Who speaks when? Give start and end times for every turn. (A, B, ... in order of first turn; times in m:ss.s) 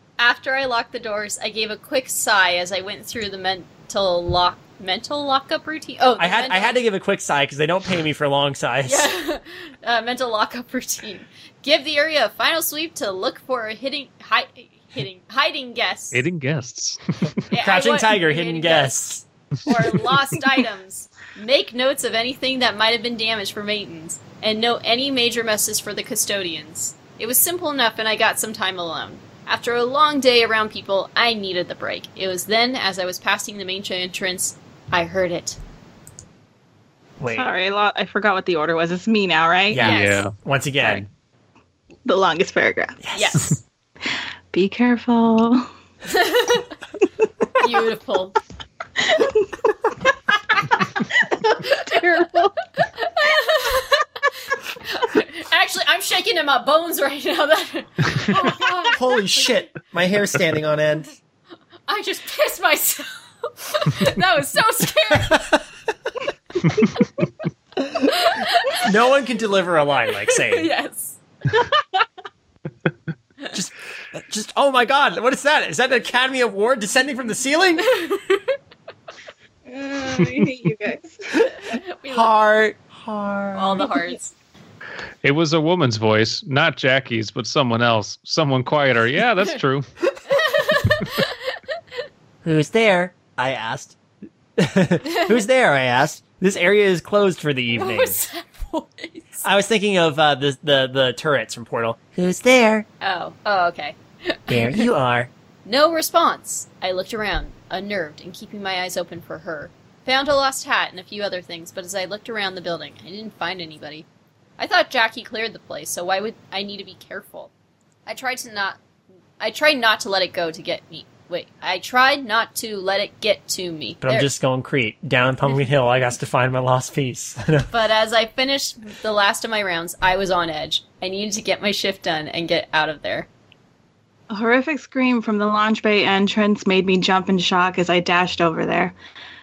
0:00.2-0:06.8 A
0:06.2-0:09.1 B
0:08.8-0:16.2 A
0:16.1-0:17.4 C
0:17.5-0:18.9 A
0:17.6-0:19.2 B
0:19.6-0:35.6 A
0:37.2-0:37.5 B
0:37.3-0:39.8 D
0:39.7-0:41.1 B
0:39.8-0:41.0 C
0:39.8-0:40.3 A
0:42.0-0:43.0 D
0:43.0-0:43.5 B
0:43.1-0:43.6 A
0:44.5-0:45.7 D
0:46.1-0:46.7 A
0:47.6-0:48.3 A
0:49.0-0:49.7 D
0:50.8-0:52.6 D
0:51.6-0:52.0 A
0:52.8-0:59.4 A
0:58.9-1:01.1 B
1:01.9-1:05.4 A
1:05.3-1:05.6 B
1:08.1-1:08.9 A
1:08.8-1:10.7 B
1:10.2-1:11.2 A
1:11.6-1:11.8 D
1:13.5-1:17.8 B
1:17.8-1:18.5 A
1:19.7-1:21.5 D
1:21.6-1:22.3 A
1:22.1-1:23.9 B
1:23.5-1:24.3 A
1:25.2-1:29.8 C
1:30.3-1:31.6 A
1:32.4-1:34.0 B
1:34.6-1:38.2 B
1:37.7-1:39.4 A
1:39.4-1:42.8 B
1:43.0-1:44.9 A
1:44.5-1:45.3 B
1:45.6-1:54.0 A
1:54.6-1:57.5 A
1:58.0-1:58.8 A
1:59.4-2:04.3 A
2:04.0-2:07.7 B
2:07.7-2:13.3 A
2:14.3-2:18.9 D